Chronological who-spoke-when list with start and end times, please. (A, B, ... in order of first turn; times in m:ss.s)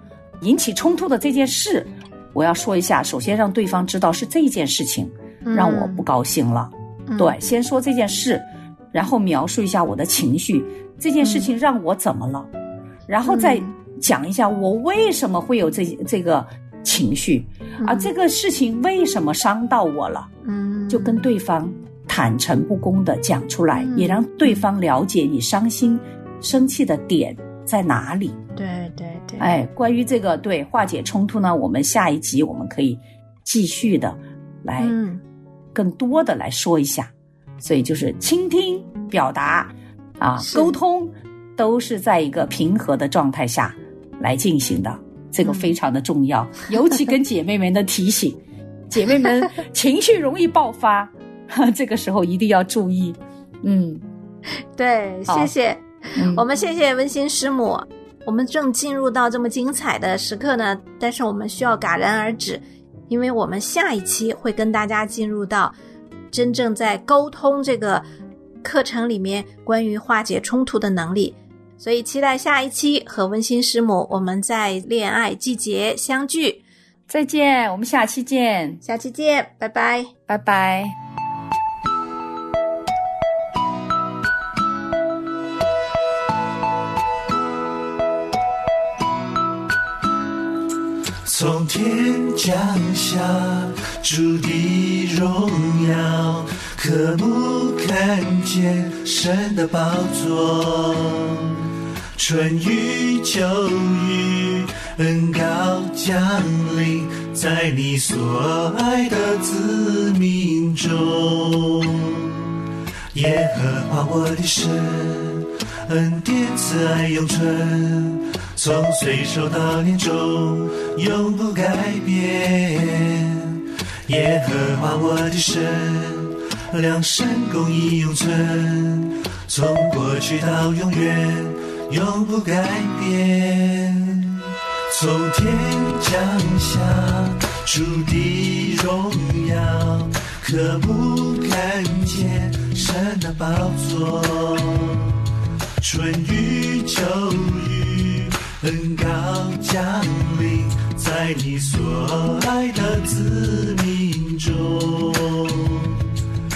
0:00.4-0:12.5 A
0:05.4-0:06.0 B
0:07.1-0:07.4 B
0:11.2-0:11.5 B
0:13.1-0:20.3 A
0:13.2-0:13.7 B
0:17.8-0:18.1 B
0:20.4-0:21.3 B
0:20.9-0:28.4 A
0:23.7-0:24.6 B
0:28.6-0:29.6 B
0:29.4-0:35.0 A
0:34.8-0:35.2 B
0:35.7-0:54.0 A
0:40.4-0:40.7 B
0:45.4-0:45.7 B
0:54.7-1:05.7 B
0:55.3-0:55.5 A
0:56.1-0:56.4 A
1:06.3-1:08.0 B
1:08.6-1:16.6 B
1:17.1-1:18.8 A
1:18.8-1:20.1 B
1:20.3-1:20.9 A
1:31.2-1:41.6 C
1:42.2-1:52.4 C
1:53.1-2:25.2 C
2:25.8-2:36.1 C